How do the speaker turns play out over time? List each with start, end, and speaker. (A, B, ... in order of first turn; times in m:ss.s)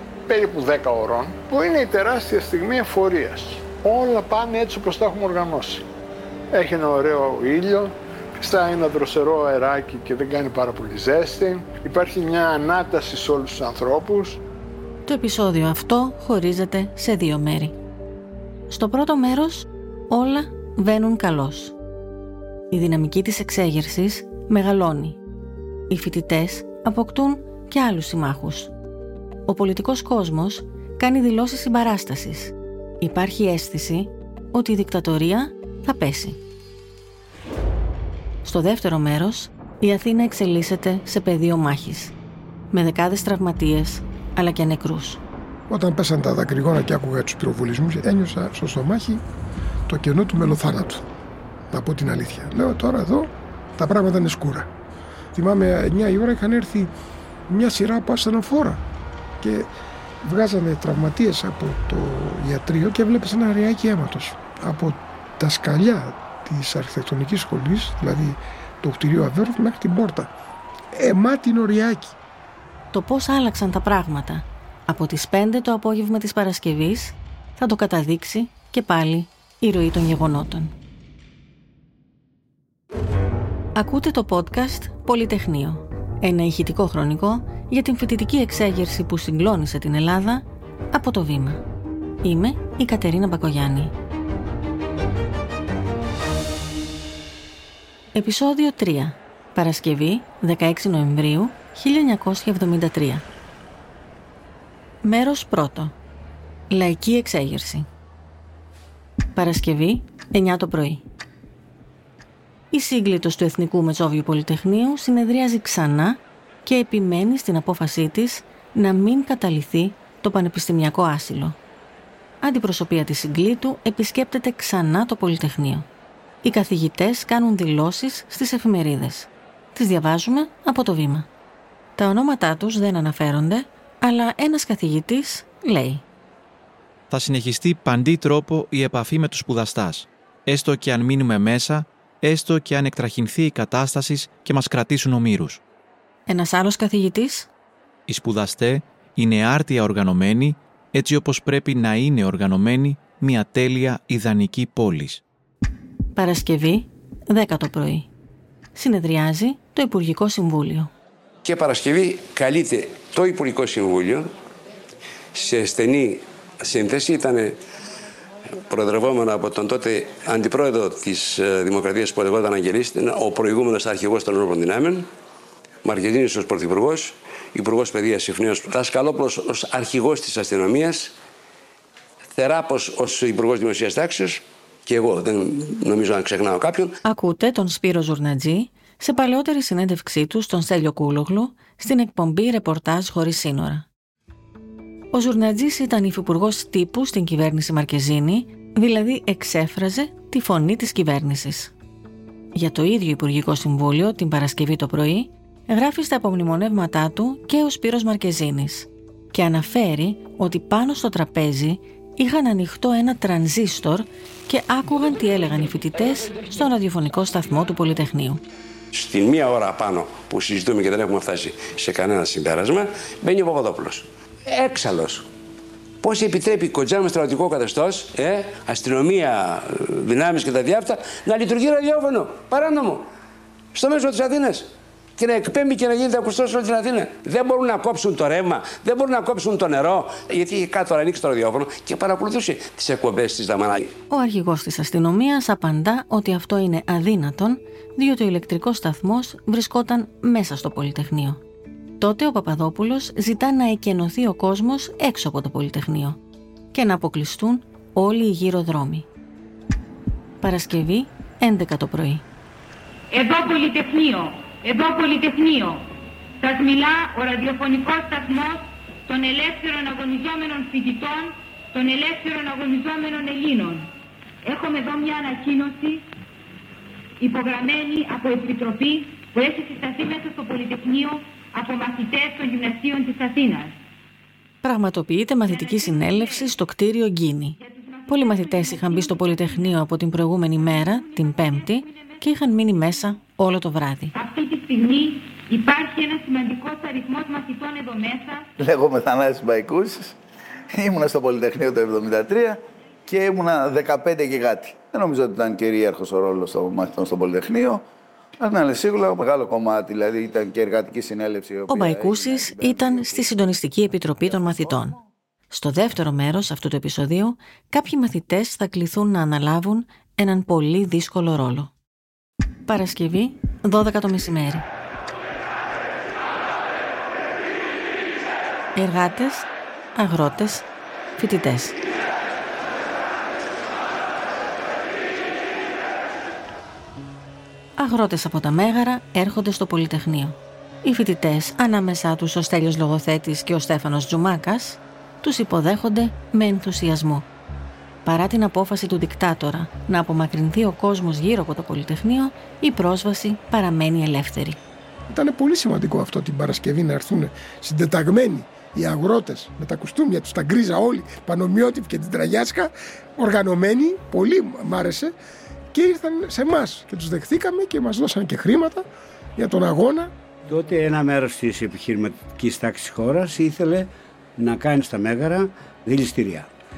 0:00.3-0:05.8 A
0:06.5-0:14.4 A
0:15.0-0:17.7 B
0:18.7-0:21.7 B
0:22.7-0:25.2 B
0:25.9-0:28.7 B
0:29.5-0:36.4 B
0:38.4-0:42.1 B
0:42.7-0:45.2 B
0:45.7-0:49.2 C
0:49.9-0:51.0 C
0:51.7-0:54.7 C
0:55.3-0:56.9 C
0:57.5-0:58.8 C
0:59.4-0:59.7 C
1:00.2-1:10.3 C
1:10.9-1:12.2 C
1:12.9-1:20.7 B
1:23.7-1:31.6 B
1:32.2-1:33.9 B
1:38.1-1:43.2 B
1:45.0-1:45.9 B
1:46.7-1:47.9 B
1:49.3-1:51.0 B
1:52.7-2:01.6 B
2:02.4-2:05.9 B
2:06.4-2:11.3 B
2:12.0-2:16.0 B
2:17.1-2:25.6 D
2:26.3-2:27.5 B
2:28.1-2:35.2 D
2:36.1-2:38.1 B
2:38.7-2:40.9 B
2:41.4-2:44.3 E
2:45.3-2:47.6 E
2:48.6-2:55.1 E
2:55.8-3:01.1 E
3:02.3-3:06.9 E
3:07.0-3:13.8 B
3:15.1-3:21.7 B
3:22.5-3:38.4 B
3:38.9-3:45.3 E
3:46.0-3:53.0 E
3:53.7-4:03.9 E
4:04.1-4:11.4 B
4:12.0-4:16.2 B
4:16.7-4:19.1 B
4:20.4-4:22.2 B
4:23.1-4:25.9 F
4:26.4-4:33.9 F
4:34.4-4:36.0 F
4:37.2-4:43.8 F
4:44.6-4:54.1 B
4:45.5-4:46.5 F
4:47.6-4:49.8 F
4:50.6-4:52.1 F
4:54.1-4:58.5 F
4:58.6-5:00.2 G
5:00.7-5:07.8 G
5:08.4-5:13.4 G
5:11.7-5:15.0 B
5:15.5-5:21.7 B
5:22.7-5:24.6 B
5:28.7-5:30.6 B
5:31.2-5:31.8 B
5:37.8-5:47.2 B
5:48.0-5:54.6 B
5:55.1-6:05.1 C
6:05.7-6:08.8 C
6:09.4-6:10.1 C
6:10.4-6:16.5 H